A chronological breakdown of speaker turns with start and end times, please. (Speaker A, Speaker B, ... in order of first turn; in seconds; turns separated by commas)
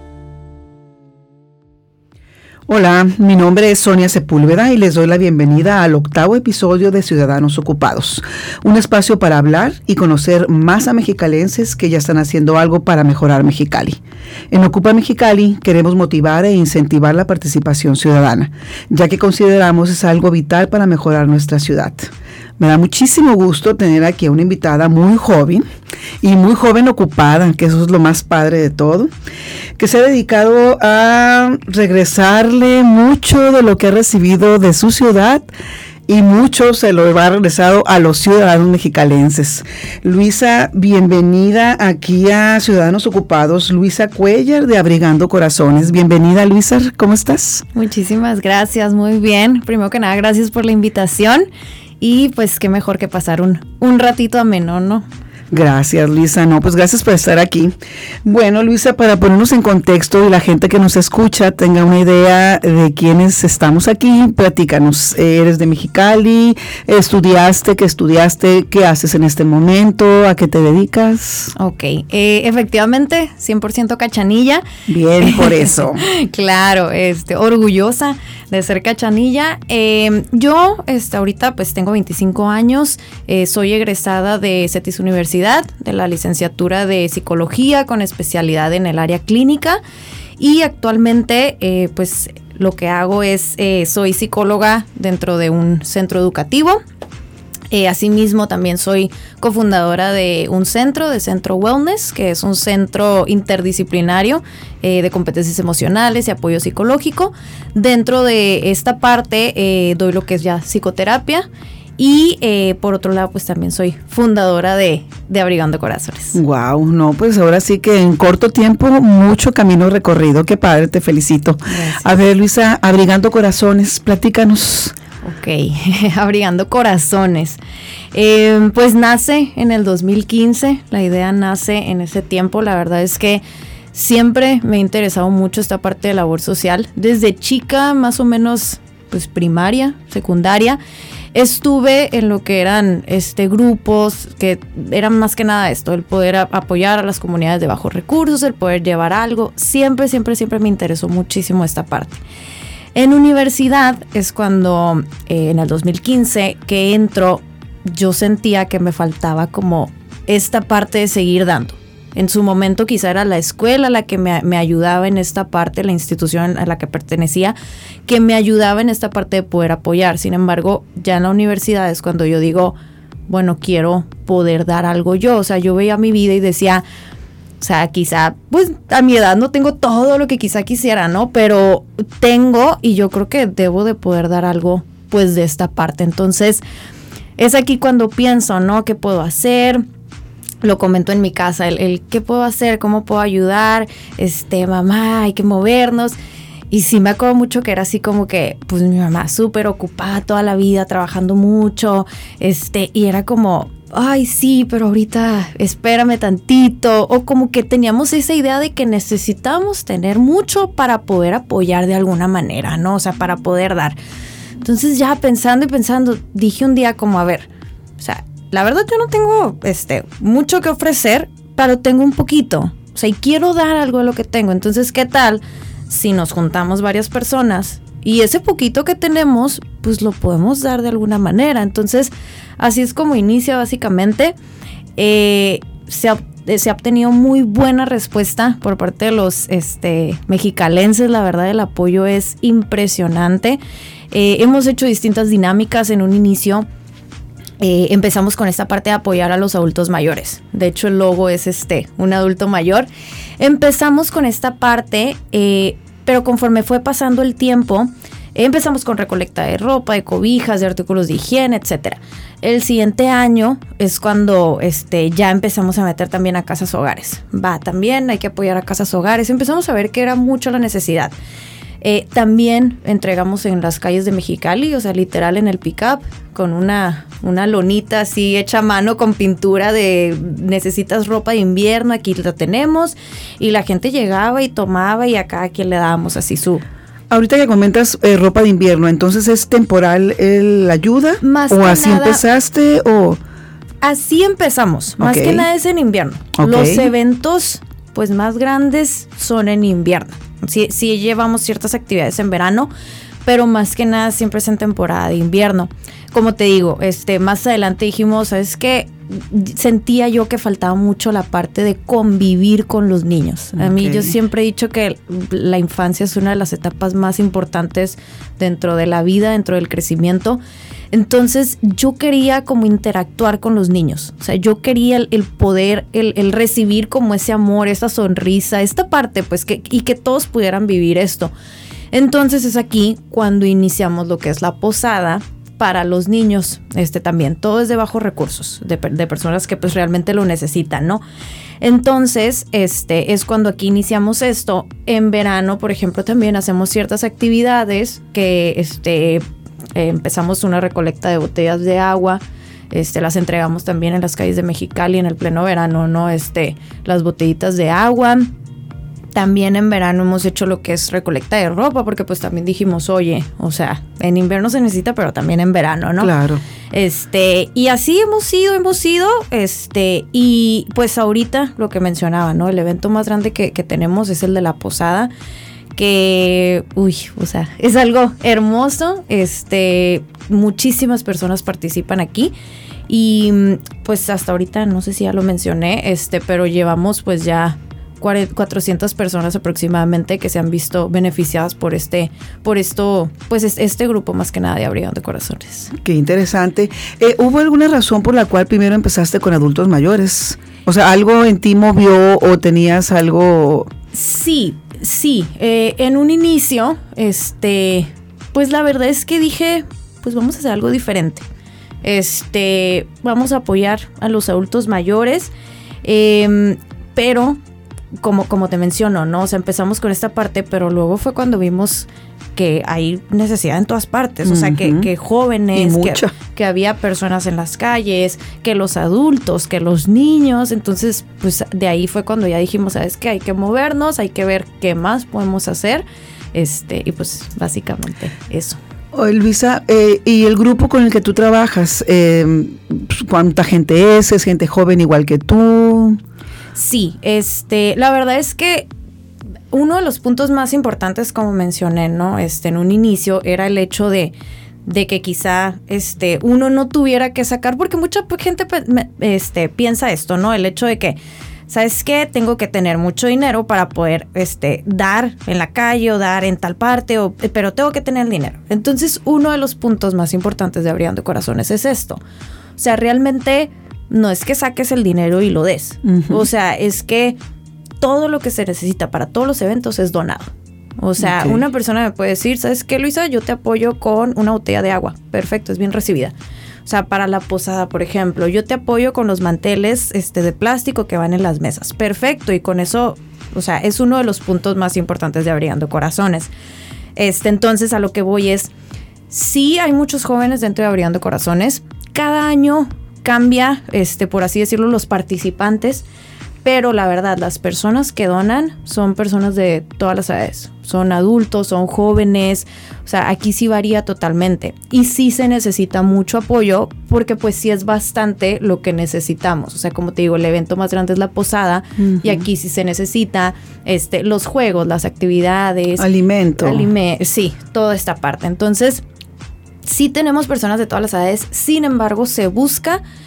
Speaker A: 2.7-14.0, Speaker A: 14.5-25.6, Speaker A: 26.2-29.1, Speaker A: 29.8-35.5, Speaker A: 36.1-47.6, Speaker B: 47.8-51.5, Speaker B: 52.0-55.0, Speaker A: 55.5-57.7, Speaker A: 58.2-71.5, Speaker B: 71.5-74.6, Speaker A: 74.9-76.0, Speaker B: 75.2-89.8, Speaker B: 90.4-96.8, Speaker B: 97.7-111.5, Speaker B: 112.0-116.4, Speaker A: 116.3-125.0, Speaker B: 121.7-122.0, Speaker B: 125.2-127.6, Speaker B: 128.1-140.8, Speaker B: 141.3-152.2, Speaker B: 152.9-167.6, Speaker B: 168.1-172.8, Speaker B: 173.3-176.8, Speaker B: 177.6-186.6, Speaker B: 187.4-189.8, Speaker B: 190.6-196.2, Speaker B: 196.7-214.0, Speaker B: 214.6-217.5, Speaker B: 218.0-234.3, Speaker B: 235.0-243.6, Speaker B: 244.1-246.7, Speaker B: 247.6-252.9, Speaker B: 253.4-271.1, Speaker B: 271.8-286.6, Speaker A: 287.1-293.2, Speaker B: 291.2-292.2, Speaker B: 293.8-302.7, Speaker A: 295.0-295.5, Speaker A: 296.4-296.9, Speaker B: 303.2-320.4, Speaker A: 313.6-314.1, Speaker B: 320.9-331.3, Speaker B: 331.9-341.0, Speaker B: 341.6-349.2, Speaker B: 349.8-358.3, Speaker B: 359.1-366.1, Speaker A: 366.0-366.4, Speaker B: 366.7-375.1, Speaker B: 375.8-382.3, Speaker B: 382.9-395.7, Speaker A: 395.7-403.7, Speaker B: 403.9-411.3, Speaker B: 411.8-415.3, Speaker B: 415.8-417.4, Speaker B: 418.0-438.6, Speaker A: 424.2-424.9, Speaker A: 425.6-426.1, Speaker A: 438.9-446.0, Speaker B: 446.6-448.7, Speaker B: 449.5-454.1, Speaker B: 454.6-461.0, Speaker B: 461.5-472.0, Speaker B: 472.6-477.2, Speaker A: 475.9-476.2, Speaker B: 477.8-486.1, Speaker A: 481.0-481.4, Speaker B: 486.6-496.3, Speaker B: 497.0-498.5, Speaker B: 499.1-505.9, Speaker B: 506.4-528.8, Speaker A: 521.8-522.2, Speaker A: 525.8-526.7, Speaker B: 529.7-532.8